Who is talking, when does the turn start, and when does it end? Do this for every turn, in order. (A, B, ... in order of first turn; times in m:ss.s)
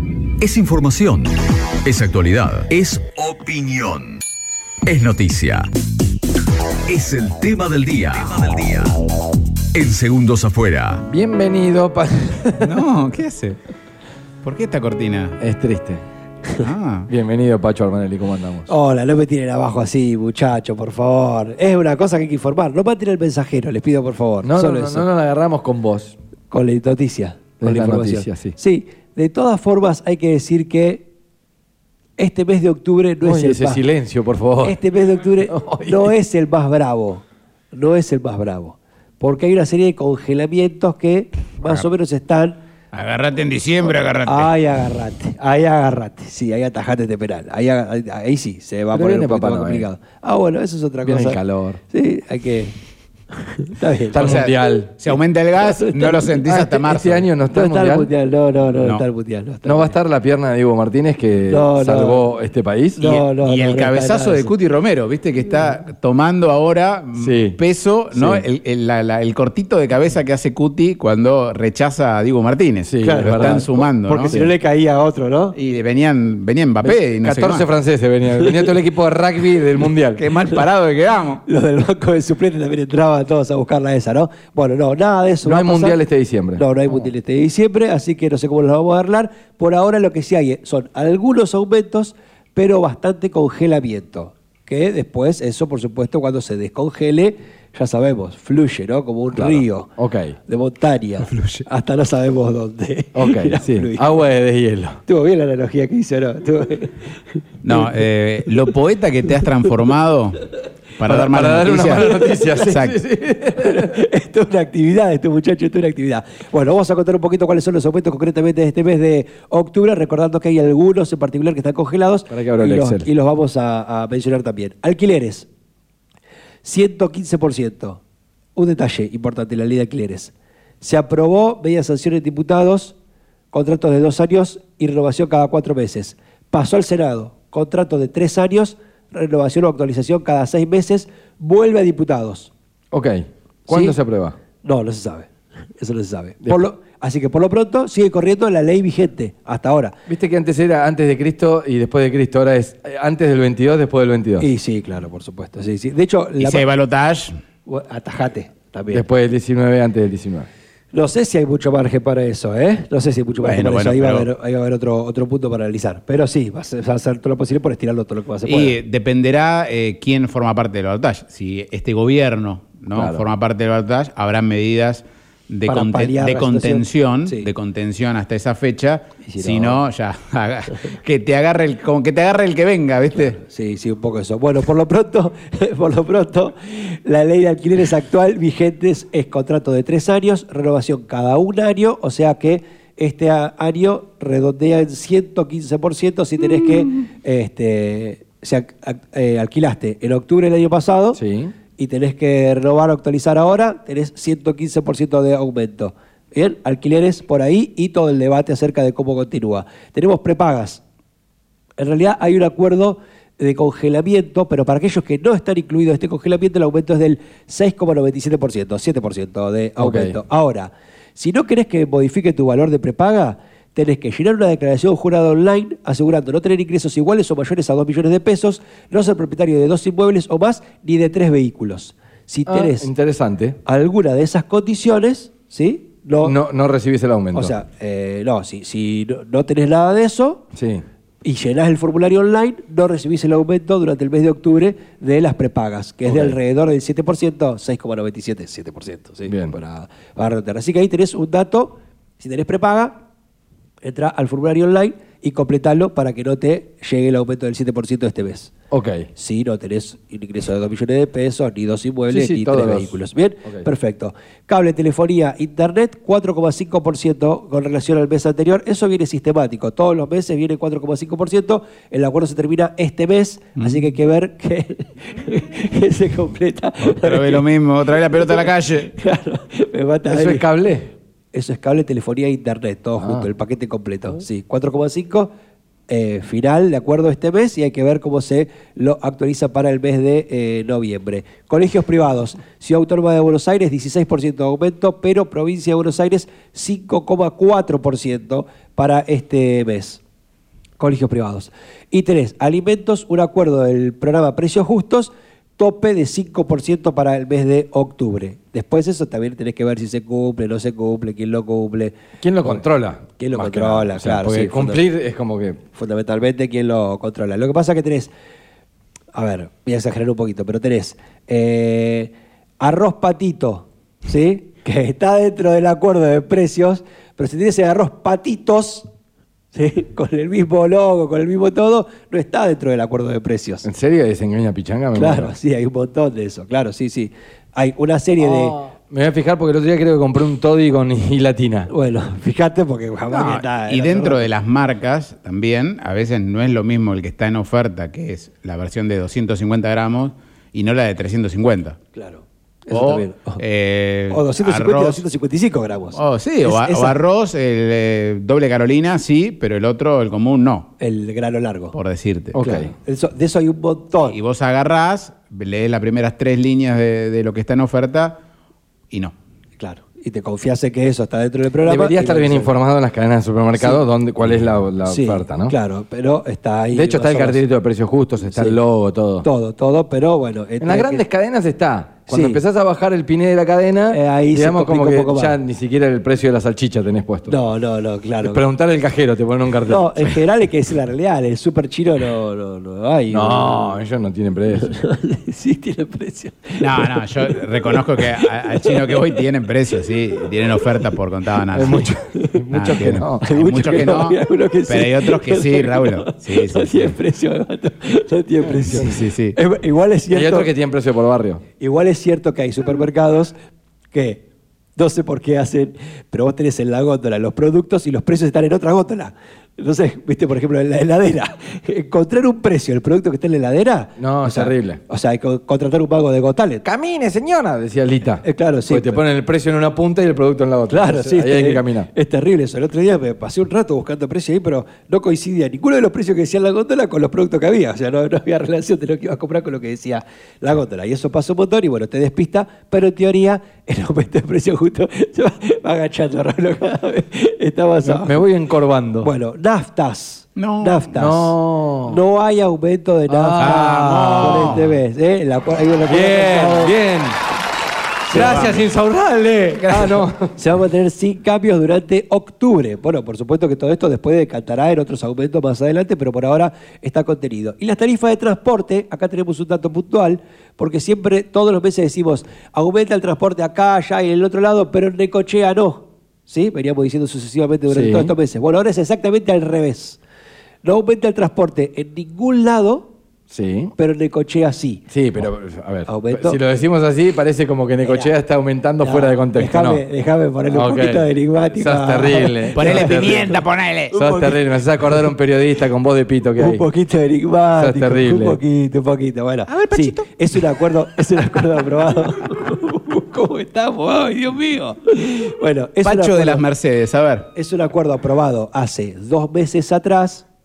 0:00.4-0:04.2 A
0:04.8-0:05.7 A
0:06.9-0:09.0 A
0:09.7-0:11.0 A
0:11.1-0:12.8 B
0:12.6-0:13.6 C
0:14.4-0:15.4 C
0:15.4-0:16.0 B
0:16.6-0:17.1 C
0:17.1-0:18.7 B
0:18.7-0:25.1 D
0:24.4-0:26.2 B
0:26.5-0:31.1 D
0:27.6-0:28.6 B
0:32.2-0:33.8 D
0:33.2-0:34.8 B
0:34.6-0:42.6 D
0:35.4-0:36.1 B
0:42.9-0:44.5 C
0:44.2-0:52.7 D
0:48.9-0:49.9 B
0:51.0-0:51.8 B
0:53.5-0:54.5 D
0:54.1-0:55.0 B
0:54.1-0:57.3 C
0:55.6-0:56.3 D
0:56.4-0:58.1 B
0:57.5-1:00.0 D
0:58.8-0:59.0 C
0:59.6-1:03.0 B
1:01.4-1:02.3 D
1:03.0-1:04.5 D
1:03.0-1:14.4 C
1:07.2-1:07.6 B
1:08.1-1:08.4 B
1:12.9-1:14.5 B
1:13.0-1:15.6 D
1:15.6-1:17.7 C
1:16.8-1:20.2 B
1:20.2-1:21.4 C
1:21.4-1:26.0 D
1:25.4-1:26.7 B
1:26.6-1:39.9 D
1:39.4-1:40.4 B
1:40.5-1:44.3 D
1:41.3-1:41.6 C
1:43.1-1:45.0 B
1:45.1-1:47.9 D
1:47.6-1:53.0 C
1:51.1-1:54.0 B
1:53.5-2:05.5 D
2:02.3-2:03.1 B
2:06.6-2:08.0 D
2:08.6-2:13.0 D
2:13.5-2:22.5 D
2:22.9-2:24.4 B
2:23.7-2:24.0 D
2:24.6-2:30.0 D
2:26.4-2:26.7 B
2:30.1-2:34.5 B
2:34.4-2:36.7 D
2:36.4-2:37.4 C
2:37.7-2:39.0 D
2:38.9-2:40.5 B
2:40.9-2:48.8 D
2:43.4-2:44.3 C
2:48.5-3:03.4 C
2:52.9-2:53.3 B
2:55.7-2:57.5 D
2:59.3-2:59.8 D
3:03.4-3:21.2 D
3:21.2-3:21.5 B
3:21.8-3:30.8 D
3:31.8-3:52.9 D
3:39.8-3:40.2 B
3:52.5-3:53.6 B
3:53.6-3:56.4 D
3:56.2-3:57.5 B
3:57.3-4:00.4 D
4:00.6-4:00.8 B
4:01.2-4:13.0 D
4:06.1-4:06.4 B
4:09.3-4:09.6 B
4:13.8-4:18.5 D
4:18.7-4:19.1 B
4:19.1-4:37.4 D
4:22.1-4:23.7 B
4:33.6-4:33.9 C
4:36.8-4:38.9 C
4:38.1-4:40.5 D
4:40.1-4:40.9 B
4:41.3-4:45.3 D
4:43.0-4:43.3 B
4:45.9-5:00.0 D
5:00.8-5:11.9 D
5:12.2-5:15.6 B
5:13.2-5:14.8 D
5:15.8-5:18.1 D
5:19.1-5:28.9 D
5:29.5-5:33.7 D
5:33.6-5:35.4 B
5:35.0-5:38.6 D
5:38.2-5:41.7 B
5:41.7-5:44.3 D
5:43.1-5:51.8 C
5:51.9-5:53.4 D
5:52.7-5:55.0 C
5:54.1-5:57.0 D
5:56.0-6:00.7 C
6:00.8-6:01.8 D
6:01.7-6:02.4 C
6:02.3-6:02.7 B
6:02.4-6:04.2 D
6:04.1-6:08.2 C
6:09.6-6:12.6 D
6:11.6-6:15.6 B
6:13.6-6:13.8 D
6:14.8-6:17.4 D
6:16.7-6:19.3 B
6:19.2-6:21.0 D
6:20.6-6:27.4 B
6:22.1-6:22.4 D
6:23.9-6:25.4 D
6:27.3-6:28.4 D
6:28.2-6:30.3 B
6:29.7-6:33.8 D
6:33.1-6:34.7 B
6:34.6-6:39.0 D
6:36.6-6:41.9 C
6:41.5-6:44.0 B
6:42.2-6:42.4 D
6:42.5-6:47.0 C
6:43.2-6:50.5 D
6:48.5-6:49.1 B
6:48.7-6:49.4 C
6:50.1-6:51.4 B
6:51.6-6:53.4 D
6:53.9-6:54.2 D
6:54.8-7:06.6 D
7:04.0-7:04.8 B
7:06.6-7:11.9 B
7:08.2-7:09.0 D
7:10.7-7:28.2 D
7:27.8-7:29.1 B
7:29.0-7:36.8 D
7:30.4-7:30.9 C
7:30.9-7:32.0 B
7:33.1-7:34.7 B
7:33.4-7:34.7 C
7:35.9-7:37.2 B
7:38.1-7:40.4 B
7:38.1-7:38.6 D
7:38.2-7:38.6 C
7:39.7-8:00.0 D
7:57.7-7:58.2 B
8:00.6-8:02.9 D
8:03.3-8:03.7 B
8:03.8-8:04.8 D
8:04.9-8:09.8 B
8:05.9-8:06.4 D
8:07.8-8:08.1 D
8:08.8-8:15.1 D
8:10.5-8:16.7 B
8:12.5-8:14.0 C
8:16.4-8:26.4 D
8:17.6-8:18.4 B
8:19.5-8:20.1 C
8:25.8-8:27.3 C
8:27.3-8:30.2 D